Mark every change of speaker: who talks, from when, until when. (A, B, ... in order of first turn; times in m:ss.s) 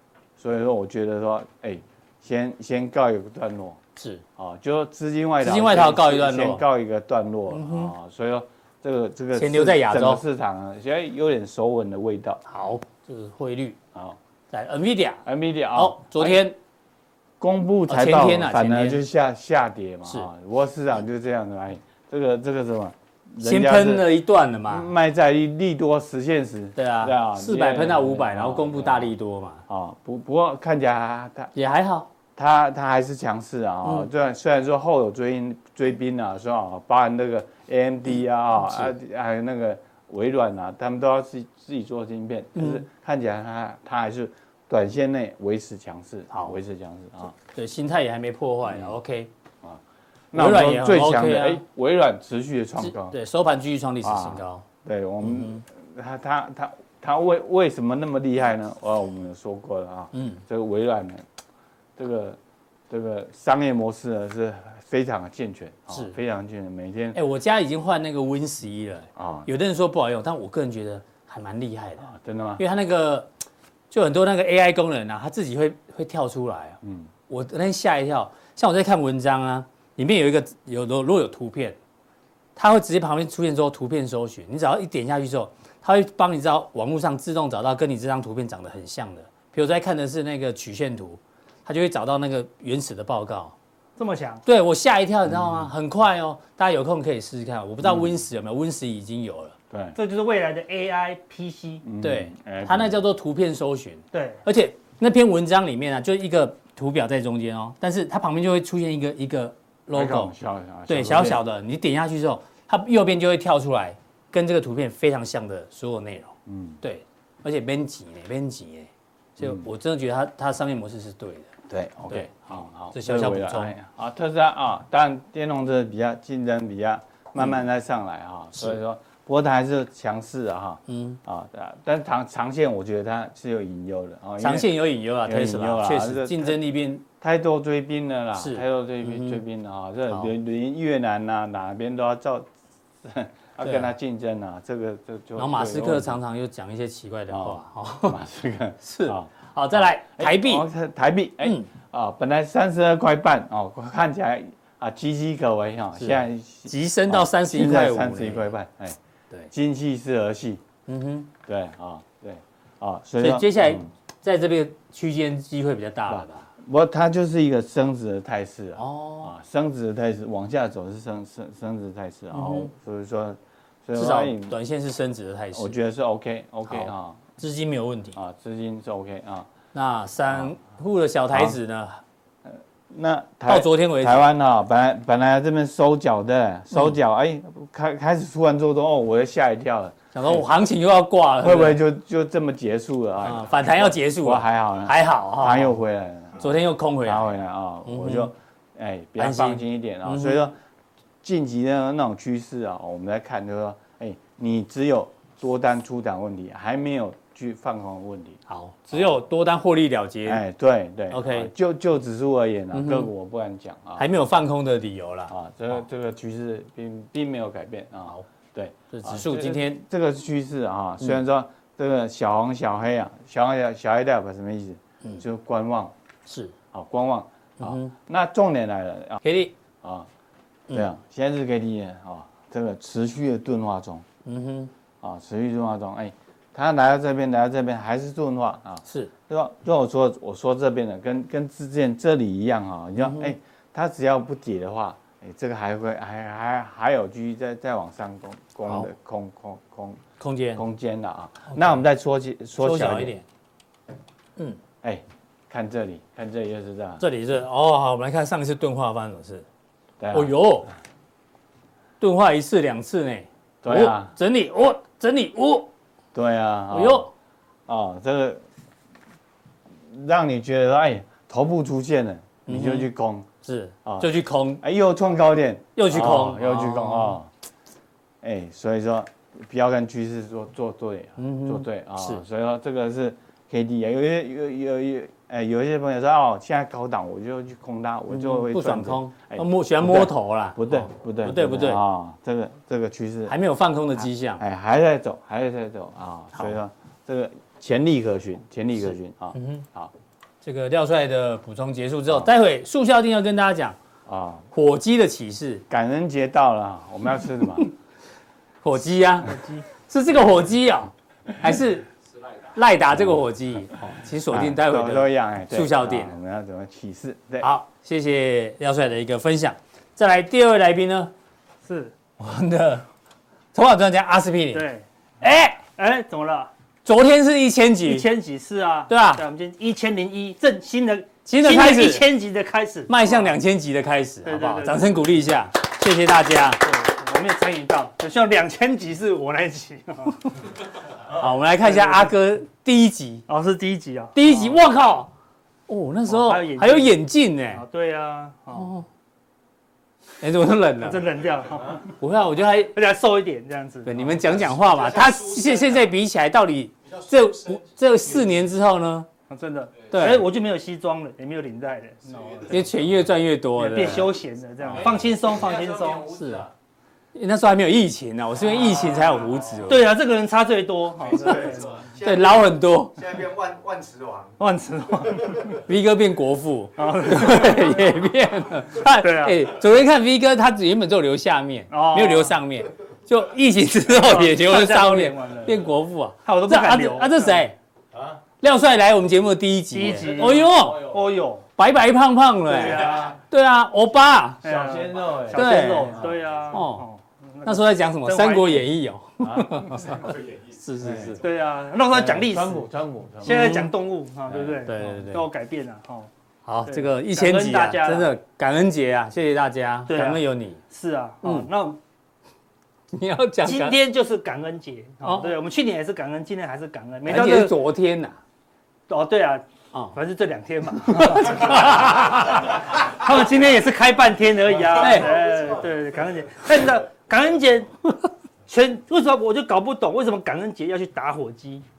0:00.4-0:03.8 A
0:04.0-0:04.2 B
0:04.4-0:12.4 A
0:05.4-0:06.6 B
0:07.5-0:07.9 B
0:09.3-0:10.2 B
0:12.5-0:13.8 B
0:14.5-0:16.6 B
0:15.3-0:16.4 A
0:17.4-0:24.1 A
0:17.9-0:19.0 B
0:23.4-0:24.9 B
0:24.7-0:29.1 A
0:26.8-0:29.6 B
0:29.7-0:31.5 A
0:31.5-0:32.1 B
0:32.4-0:47.4 A
0:38.6-0:38.9 B
0:42.6-0:42.8 B
0:46.3-0:46.6 B
0:47.5-0:49.3 B
0:48.7-0:49.0 A
0:50.3-0:53.2 A
0:50.3-0:51.6 B
0:52.8-0:54.6 B
0:54.0-1:01.3 A
0:55.2-0:55.6 B
1:00.1-1:00.4 B
1:02.0-1:02.4 A
1:02.9-1:07.2 A
1:07.1-1:13.3 B
1:09.2-1:09.5 A
1:12.1-1:12.6 A
1:13.9-1:21.8 B
1:16.8-1:17.1 A
1:22.6-1:33.5 B
1:34.0-1:34.4 C
1:34.5-1:39.6 B
1:35.3-1:35.7 A
1:37.8-1:38.2 A
1:39.7-1:40.0 A
1:40.0-1:41.8 C
1:41.8-1:43.0 A
1:42.0-1:50.3 B
1:44.1-1:44.4 C
1:49.9-1:51.4 A
1:50.9-2:01.5 B
1:56.5-1:56.8 A
1:59.4-1:59.6 A
2:01.7-2:16.6 A
2:02.9-2:03.7 B
2:10.9-2:11.2 B
2:14.4-2:17.0 B
2:17.1-2:22.5 A
2:18.4-2:19.4 B
2:23.0-2:26.2 A
2:23.6-2:23.9 B
2:25.4-2:28.2 B
2:27.3-2:39.0 A
2:28.8-2:30.6 B
2:31.4-2:31.7 B
2:36.0-2:38.5 B
2:39.5-2:40.6 A
2:40.9-2:41.3 B
2:41.5-2:43.9 A
2:43.2-2:46.5 B
2:46.1-2:54.6 A
2:48.8-2:49.3 B
2:52.3-2:52.7 B
2:54.0-2:55.8 B
2:55.5-2:57.2 A
2:56.7-2:58.2 B
2:58.1-2:59.5 A
2:59.7-3:02.0 B
3:01.3-3:01.6 A
3:02.5-3:10.5 A
3:03.5-3:04.3 B
3:10.1-3:11.8 B
3:11.4-3:20.6 A
3:13.2-3:15.8 B
3:16.4-3:17.3 B
3:17.9-3:18.3 B
3:19.2-3:20.4 B
3:21.2-3:28.4 A
3:28.5-3:30.4 B
3:30.3-3:34.1 A
3:31.1-3:31.5 B
3:32.7-3:33.1 B
3:34.0-3:35.3 B
3:35.3-3:45.9 A
3:38.9-3:39.8 B
3:46.3-3:46.6 B
3:46.7-3:49.2 A
3:47.6-3:47.9 B
3:49.2-3:49.5 B
3:49.8-3:50.1 A
3:50.7-3:54.0 A
3:54.2-3:54.7 B
3:55.0-4:10.0 A
3:58.9-3:59.1 B
4:03.0-4:03.3 B
4:10.2-4:10.6 B
4:10.6-4:13.1 A
4:11.5-4:11.8 B
4:12.6-4:13.2 B
4:14.8-4:17.0 A
4:17.0-4:19.4 B
4:20.0-4:20.3 A
4:20.1-4:20.7 B
4:22.0-4:25.7 B
4:23.6-4:24.1 A
4:26.1-4:27.1 A
4:26.7-4:27.1 B
4:27.7-4:28.4 A
4:29.9-4:33.3 A
4:32.5-4:32.9 B
4:33.4-4:34.6 B
4:33.8-4:34.1 A
4:34.6-4:37.3 A
4:35.8-4:37.2 B
4:38.2-4:53.4 A
4:41.2-4:42.2 B
4:48.1-4:51.8 B
4:53.3-4:54.4 B
4:54.4-4:59.9 A
4:59.4-4:59.6 B
5:00.4-5:03.8 B
5:04.1-5:04.5 A
5:04.5-5:05.6 B
5:05.7-5:07.7 A
5:08.6-5:11.9 B
5:09.3-5:09.6 C
5:12.5-5:16.2 B
5:14.3-5:17.5 A
5:17.4-5:21.1 B
5:21.6-5:21.9 C
5:22.2-5:22.8 B
5:23.5-5:24.6 B
5:24.5-5:26.5 C
5:26.8-5:28.1 B
5:27.8-5:33.4 C
5:28.9-5:29.2 B
5:31.3-5:32.1 B
5:32.9-5:36.6 B
5:34.2-5:34.9 C
5:36.6-5:40.3 C
5:41.1-5:43.2 B
5:41.6-5:42.1 C
5:43.3-5:44.5 C
5:44.1-5:45.1 B
5:45.7-5:47.6 B
5:46.1-5:47.0 C
5:47.5-5:48.7 C
5:48.5-5:48.9 B
5:50.2-5:51.0 B
5:50.8-5:51.9 C
5:52.0-5:52.7 B
5:52.7-5:54.1 C
5:53.8-5:59.1 B
5:59.3-6:02.7 C
5:59.9-6:00.3 B
6:02.5-6:04.1 B
6:03.6-6:06.1 C
6:06.1-6:06.5 B
6:07.1-6:09.9 B
6:09.7-6:11.8 C
6:11.1-6:14.4 D
6:12.0-6:13.0 B
6:14.4-6:15.6 C
6:15.6-6:27.6 B
6:16.8-6:17.9 C
6:18.9-6:19.4 C
6:21.7-6:22.4 C
6:24.0-6:25.6 C
6:26.2-6:27.4 C
6:28.4-6:30.9 B
6:29.7-6:31.4 C
6:31.6-6:34.4 B
6:32.5-6:33.2 C
6:34.4-6:38.6 C
6:34.4-6:36.2 A
6:35.3-6:36.0 B
6:36.5-6:36.8 B
6:37.4-6:41.2 B
6:39.2-6:40.0 A
6:40.8-6:41.2 A
6:41.2-6:42.6 C
6:41.9-6:43.6 A
6:43.2-6:46.1 C
6:43.2-6:43.7 B
6:44.6-6:45.2 B
6:46.5-6:50.6 B
6:46.7-6:48.1 C
6:49.9-6:51.8 C
6:51.2-6:51.5 B
6:52.9-6:53.8 B
6:53.4-6:57.6 C
6:55.0-6:55.3 B
6:57.1-6:58.2 B
6:58.9-7:07.7 C
7:00.9-7:02.6 B
7:04.8-7:05.3 B
7:08.5-7:11.6 C